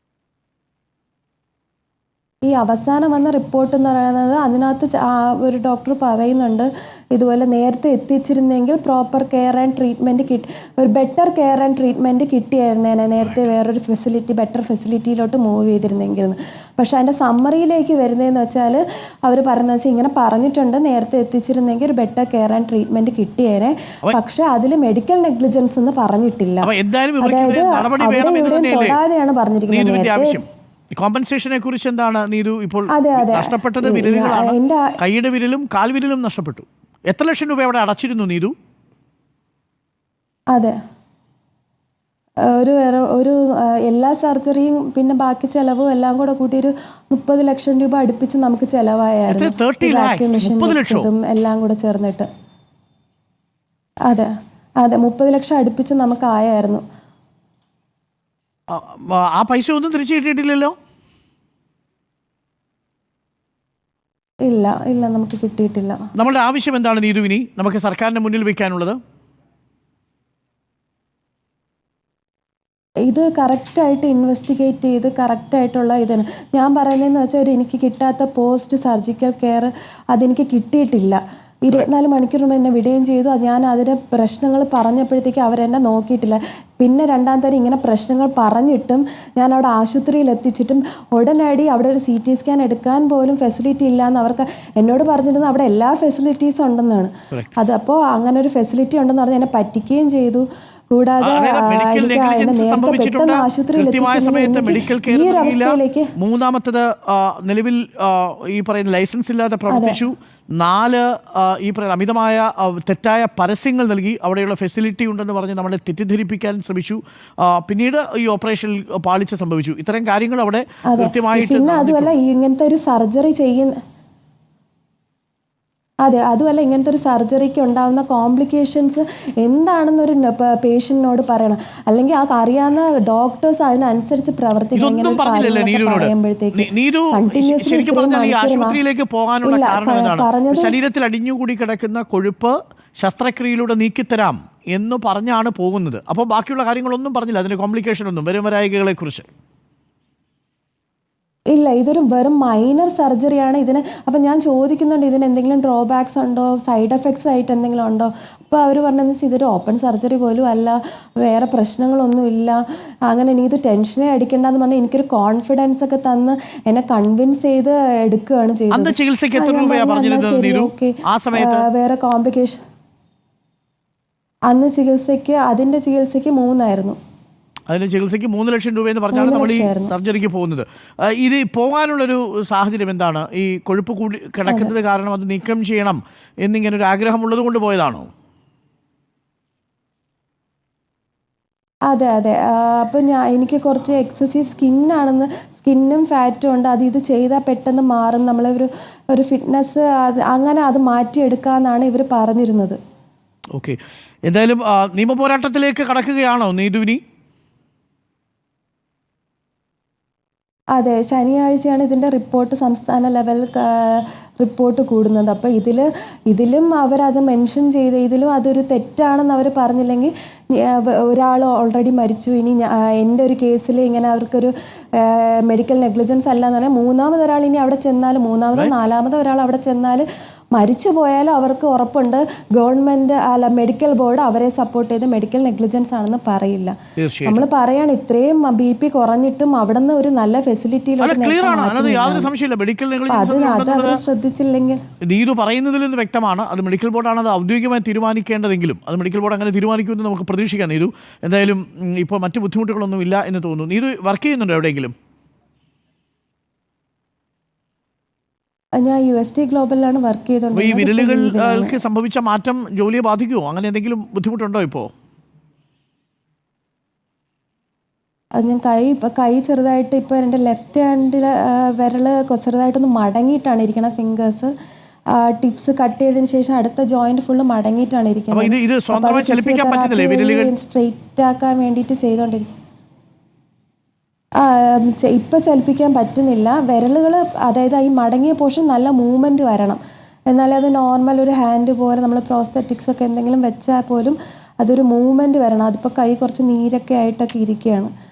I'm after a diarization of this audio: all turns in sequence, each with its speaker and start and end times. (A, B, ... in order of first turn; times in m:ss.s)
0:02.4-0:26.7 A
0:26.6-0:29.0 B
0:27.2-0:30.4 A
0:29.7-0:38.5 B
0:32.9-0:35.0 A
0:42.5-0:52.3 A
0:49.3-0:51.1 B
0:54.1-0:56.8 A
0:58.7-1:00.8 B
1:04.5-1:06.0 A
1:06.2-1:09.0 B
1:13.1-1:46.1 A
1:41.2-2:02.1 B
1:49.7-1:50.0 A
2:00.9-2:03.8 A
2:06.0-2:18.8 A
2:14.8-2:29.3 B
2:19.4-2:20.8 A
2:31.5-2:52.6 A
2:48.7-2:51.7 B
2:54.5-2:57.0 A
2:57.7-3:08.1 B
2:59.1-2:59.9 A
3:04.5-3:04.7 A
3:11.9-3:22.8 A
3:23.5-3:27.0 B
3:30.8-4:02.3 A
3:57.0-3:57.4 B
4:01.0-4:04.0 B
4:03.1-4:04.8 A
4:05.1-4:14.9 B
4:18.8-4:21.8 A
4:20.5-4:24.9 B
4:28.4-4:34.5 A
4:35.1-4:42.6 A
4:38.3-4:40.5 B
4:44.4-4:49.8 A
4:50.3-4:57.9 A